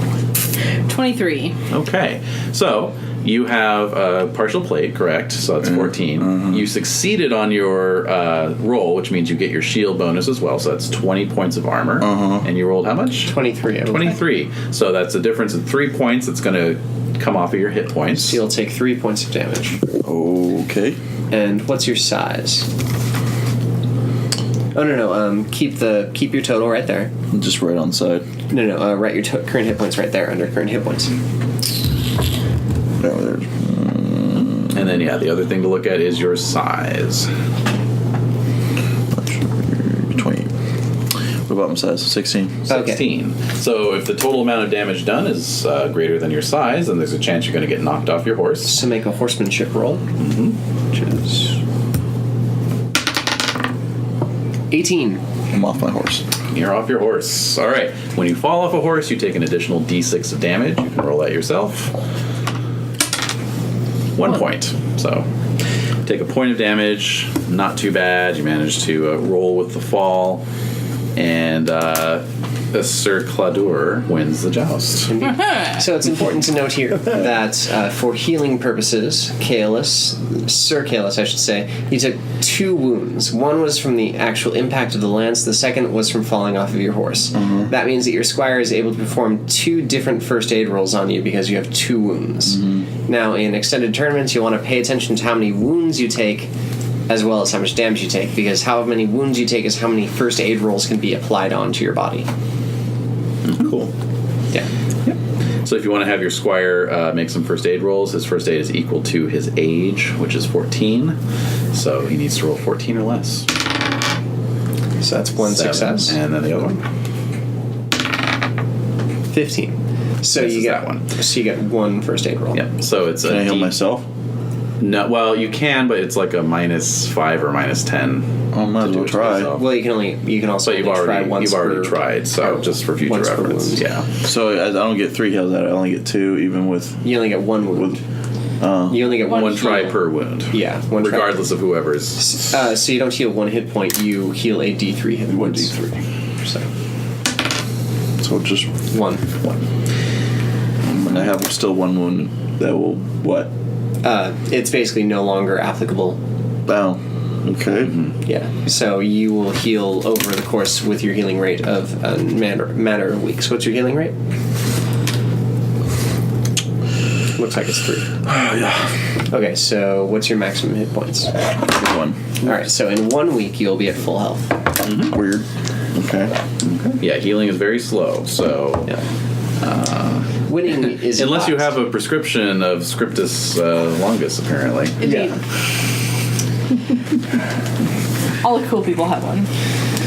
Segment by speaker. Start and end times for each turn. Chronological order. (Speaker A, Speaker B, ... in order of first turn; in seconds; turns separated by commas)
Speaker A: 0.9-1.5, Speaker B: 1.7-18.4, Speaker C: 6.2-6.6, Speaker C: 12.0-12.5, Speaker D: 13.3-14.2, Speaker D: 18.1-19.8, Speaker C: 20.0-21.0, Speaker D: 21.3-22.7, Speaker D: 24.7-27.1, Speaker C: 27.3-28.2, Speaker D: 28.5-31.2, Speaker C: 33.0-34.8, Speaker B: 34.7-37.3, Speaker C: 39.1-40.5, Speaker C: 41.5-42.6, Speaker B: 42.7-48.8, Speaker D: 42.7-43.0, Speaker D: 48.6-50.0, Speaker B: 50.2-50.6, Speaker D: 50.9-51.6, Speaker D: 54.7-55.2, Speaker C: 55.5-56.2, Speaker B: 56.5-61.9, Speaker B: 64.1-65.3, Speaker B: 66.0-70.4, Speaker B: 71.2-75.1, Speaker D: 75.1-96.5, Speaker A: 75.2-75.8, Speaker C: 87.4-87.7, Speaker C: 92.5-92.8, Speaker D: 97.1-102.3, Speaker B: 103.4-103.9, Speaker B: 105.0-111.2, Speaker B: 111.7-113.5, Speaker D: 115.0-116.2, Speaker B: 115.4-116.8, Speaker D: 119.3-122.6, Speaker B: 120.3-121.1, Speaker B: 122.5-123.7, Speaker C: 123.2-124.0, Speaker B: 124.8-129.7, Speaker C: 128.5-129.5, Speaker D: 129.5-133.9, Speaker B: 130.6-134.1, Speaker C: 134.2-137.1, Speaker D: 137.0-138.0, Speaker C: 138.6-139.0, Speaker D: 138.9-141.5, Speaker B: 139.1-142.5, Speaker A: 139.3-139.8, Speaker D: 142.2-146.7, Speaker C: 145.4-145.7, Speaker C: 148.2-148.7, Speaker D: 148.9-149.2, Speaker C: 150.9-153.5, Speaker D: 154.0-156.2, Speaker C: 156.7-158.0, Speaker B: 157.9-158.1, Speaker D: 158.2-164.1, Speaker D: 167.3-168.1, Speaker C: 168.2-168.9, Speaker D: 169.3-171.3, Speaker C: 171.6-172.2, Speaker D: 172.4-174.5, Speaker B: 174.8-175.1, Speaker C: 175.1-176.3, Speaker B: 176.6-179.0, Speaker B: 179.6-185.0, Speaker D: 180.4-181.8, Speaker A: 185.0-185.4, Speaker D: 185.0-185.3, Speaker A: 188.4-189.5